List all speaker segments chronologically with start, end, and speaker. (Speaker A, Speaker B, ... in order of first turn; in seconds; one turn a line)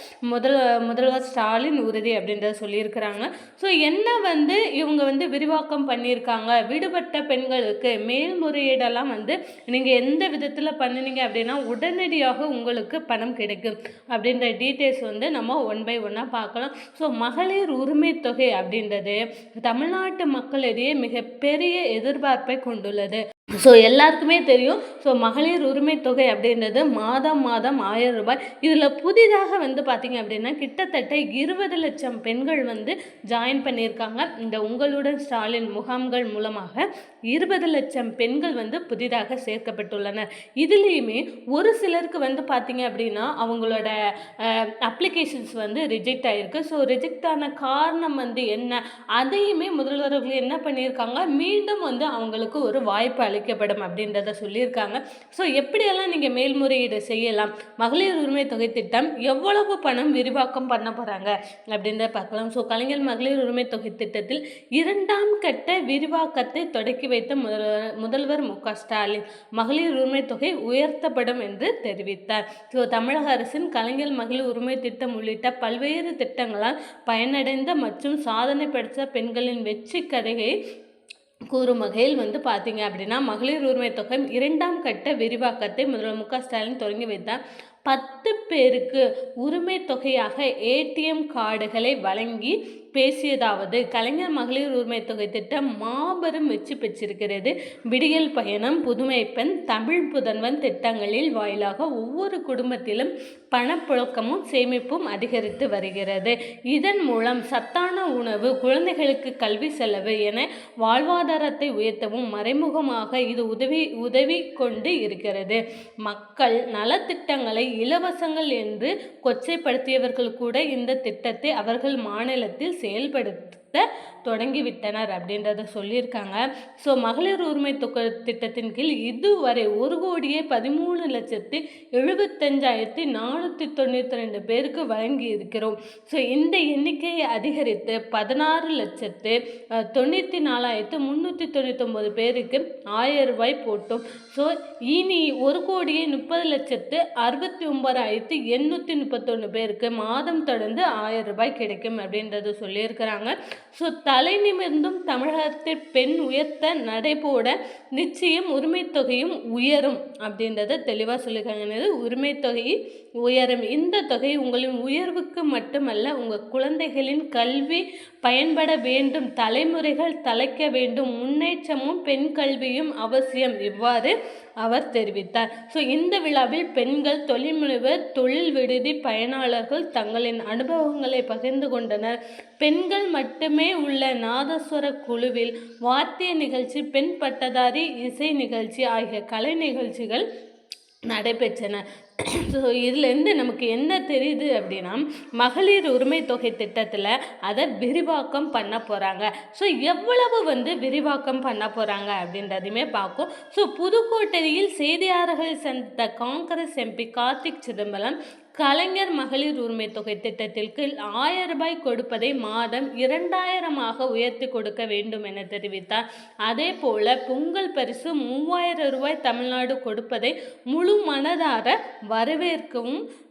Speaker A: 0.3-43.9
Speaker A: 44.4-80.5
Speaker A: 81.5-139.3
Speaker A: 139.9-162.7
Speaker A: 163.2-190.2
Speaker A: 191.1-191.8
Speaker A: 192.3-223.0